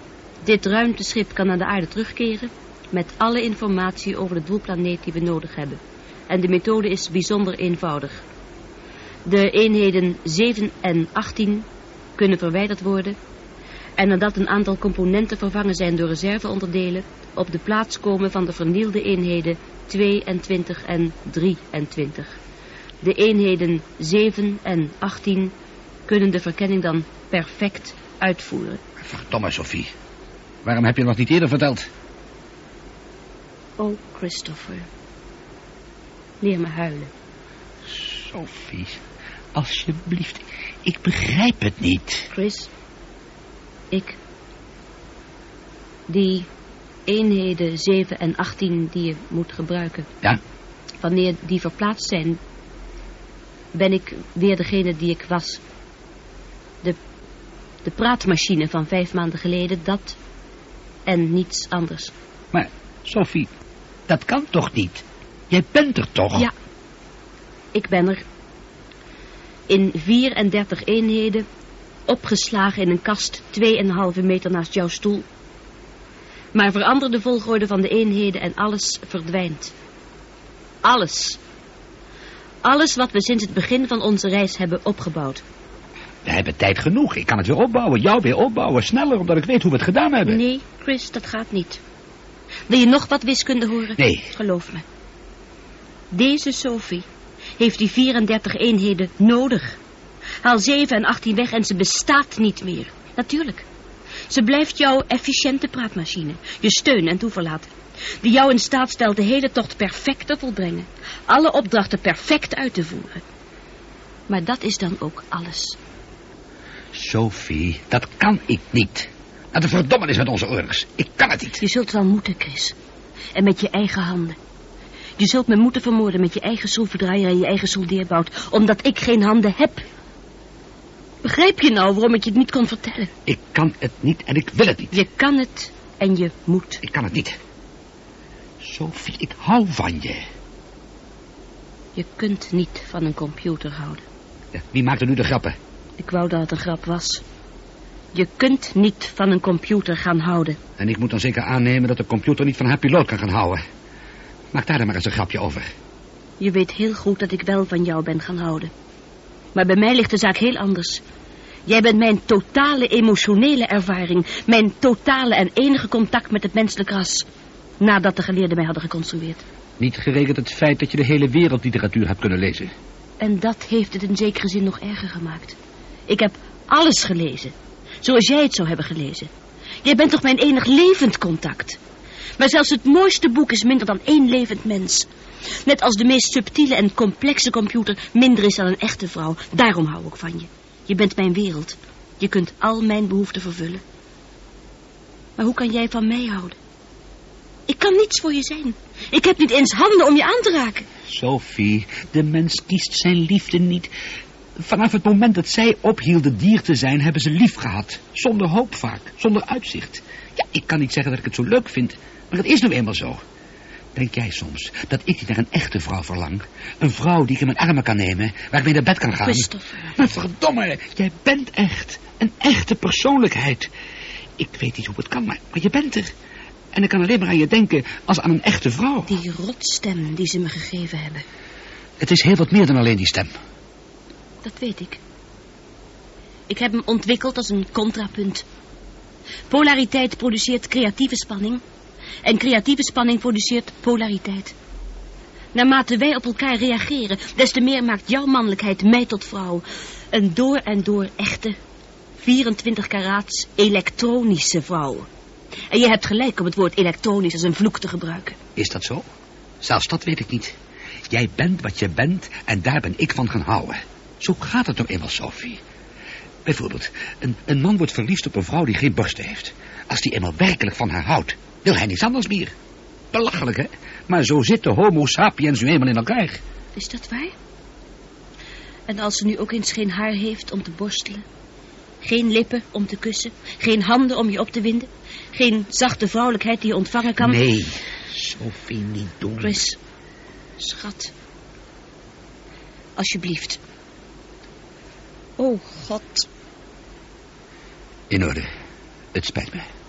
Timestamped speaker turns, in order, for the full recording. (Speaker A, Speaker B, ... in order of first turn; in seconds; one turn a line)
Speaker A: 0.4-8.2
Speaker A: 9.2-13.2
Speaker A: 14.0-22.4
Speaker A: 23.0-25.5
Speaker A: 26.1-28.8
Speaker B: 29.0-29.9
Speaker B: 30.6-31.9
Speaker A: 33.8-34.9
Speaker A: 36.4-37.1
Speaker B: 37.9-39.0
Speaker B: 39.5-42.3
Speaker A: 42.3-42.7
Speaker A: 43.9-44.2
Speaker A: 46.1-46.5
Speaker A: 47.1-50.1
Speaker A: 51.0-52.4
Speaker A: 53.7-55.6
Speaker A: 57.8-60.2
Speaker A: 61.0-62.1
Speaker B: 62.5-63.5
Speaker B: 64.1-66.5
Speaker A: 67.7-68.2
Speaker A: 69.7-71.5
Speaker A: 72.1-75.2
Speaker A: 76.5-79.7
Speaker A: 80.8-81.4
Speaker A: 82.6-85.4
Speaker B: 86.2-90.4
Speaker A: 90.2-91.8
Speaker A: 92.7-94.8
Speaker B: 94.0-94.3
Speaker A: 96.1-97.0
Speaker A: 97.6-99.8
Speaker A: 100.4-103.7
Speaker A: 104.3-113.2
Speaker A: 114.3-115.8
Speaker B: 116.9-121.6
Speaker A: 121.6-122.7
Speaker A: 123.3-124.4
Speaker A: 125.2-129.8
Speaker A: 131.2-133.1
Speaker B: 133.2-135.0
Speaker A: 134.9-136.8
Speaker B: 136.8-137.4
Speaker B: 138.6-140.2
Speaker A: 141.9-144.0
Speaker B: 144.5-145.6
Speaker A: 146.0-147.2
Speaker A: 148.1-150.6
Speaker B: 150.8-153.6
Speaker B: 154.5-155.7
Speaker A: 156.4-158.7
Speaker A: 159.5-161.0
Speaker A: 161.7-167.3
Speaker A: 167.8-169.4
Speaker B: 169.8-172.7
Speaker A: 173.2-175.6
Speaker A: 176.1-179.3
Speaker A: 179.8-181.8
Speaker A: 182.4-185.1
Speaker A: 185.6-193.8
Speaker A: 195.4-196.6
Speaker A: 197.7-200.9
Speaker B: 201.1-203.9
Speaker B: 204.6-213.2
Speaker B: 213.9-223.7
Speaker A: 219.2-220.1
Speaker B: 224.4-226.1
Speaker B: 226.7-229.2
Speaker A: 229.1-231.2
Speaker B: 232.0-233.3
Speaker A: 234.4-235.0
Speaker A: 236.5-238.4
Speaker A: 239.5-241.6
Speaker A: 242.2-244.5
Speaker A: 245.5-251.6
Speaker A: 252.2-255.1
Speaker A: 255.7-258.4
Speaker B: 258.6-259.1
Speaker B: 259.6-260.5
Speaker B: 261.1-265.6
Speaker B: 266.4-272.5
Speaker B: 273.1-276.4
Speaker A: 276.7-277.3
Speaker A: 278.9-281.2
Speaker A: 282.0-287.4
Speaker B: 287.2-289.6
Speaker A: 289.4-289.8
Speaker A: 290.6-291.1
Speaker A: 292.9-293.6
Speaker A: 295.4-296.3
Speaker B: 298.1-298.5
Speaker B: 299.1-299.7